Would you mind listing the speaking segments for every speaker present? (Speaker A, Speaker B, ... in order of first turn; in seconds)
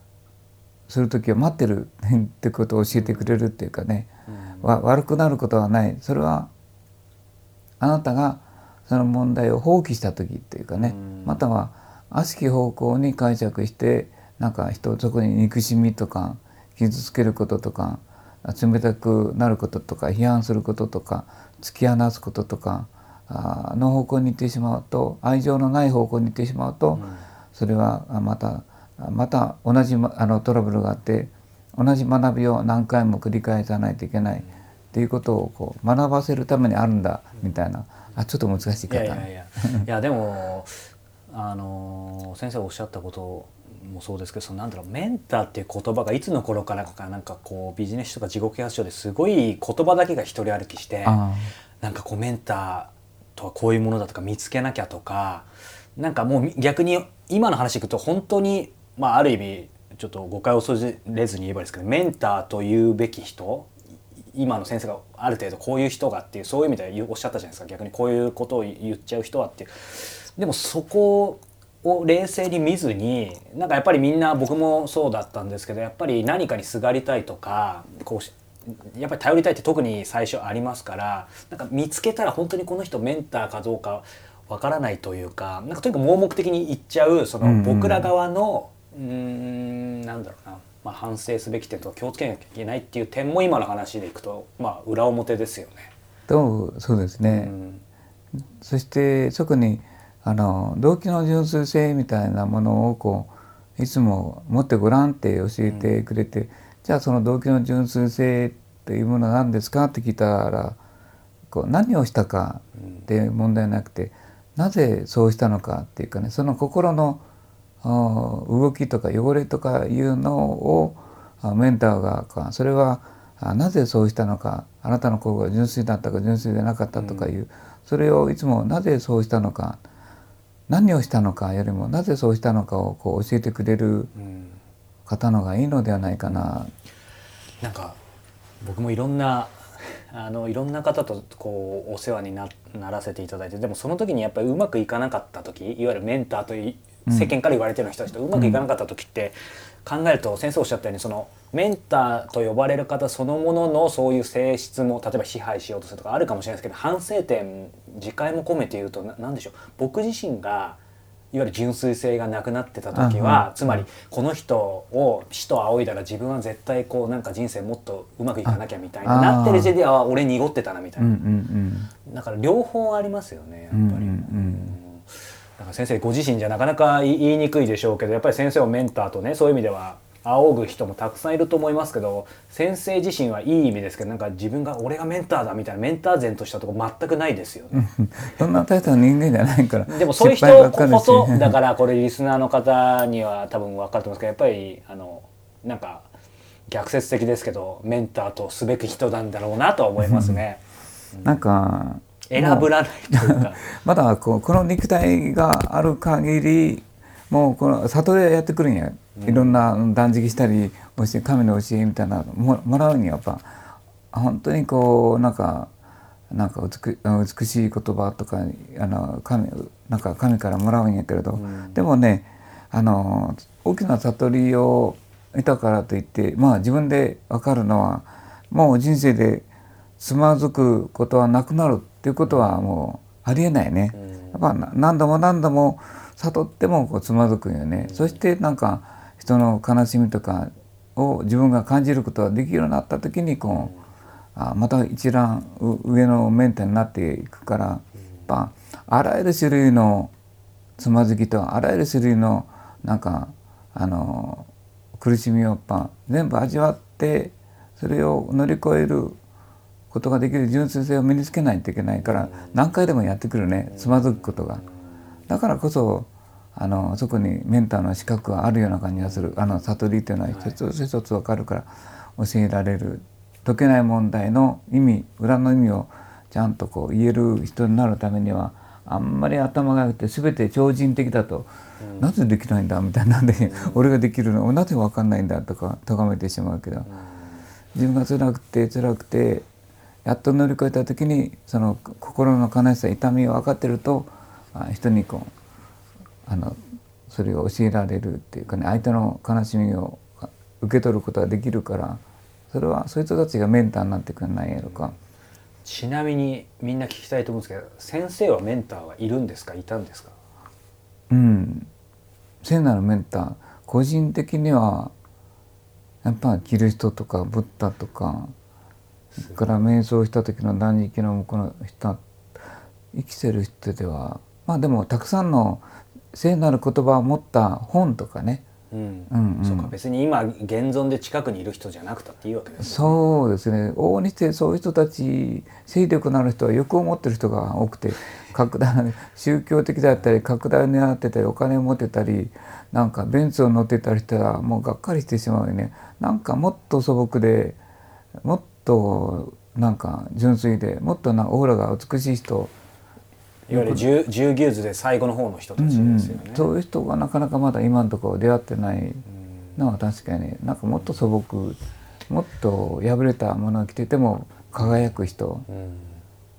Speaker A: 0.9-4.1, 4.6-6.5, 7.8-39.9, 51.0-51.5, 87.4-88.1, 96.3-97.5, 98.6-110.8, 111.5-117.2, 117.8-129.8, 130.7-134.1, 135.1-136.7, 147.1-147.3, 148.3-148.6, 162.9-163.8, 168.4-169.8, 171.0-171.9, 173.7-174.8, 187.7-191.6, 200.0-200.4, 201.2-213.4, 214.1-215.7, 216.3-229.5, 230.0-243.7, 244.3-250.1, 250.8-259.2, 259.9-264.6, 265.3-286.9, 287.7-289.4, 290.0-295.3, 296.3-304.9, 311.1-311.7, 312.4-314.9, 316.0-318.3, 319.2-322.0, 322.9-328.4, 329.1-329.8, 332.6-347.6, 348.2-352.5, 353.5-353.9, 355.6-359.0, 359.6-365.4
Speaker B: 2.9-3.3, 4.3-4.8, 10.7-11.4, 26.9-27.3, 38.9-40.8, 41.3-51.2, 51.8-63.7, 64.3-95.9, 97.2-97.8, 105.6-106.0, 112.8-113.1, 126.9-127.4, 134.1-134.6, 136.2-136.5, 137.6-138.0, 138.6-160.8, 161.3-171.2, 172.0-187.9, 189.8-196.1, 196.7-200.6, 201.1-201.4, 202.2-203.7, 209.2-209.6, 221.3-221.8, 232.2-232.7, 233.9-234.5, 237.8-238.2, 243.5-243.8, 262.0-262.5, 263.7-264.7, 268.9-269.6, 270.3-270.6, 281.8-282.1, 283.4-283.9, 286.8-287.4, 304.6-304.9, 305.6-310.2, 319.1-319.6, 328.7-333.0, 353.5-356.5, 359.2-359.6, 364.6-364.9, 365.5-366.0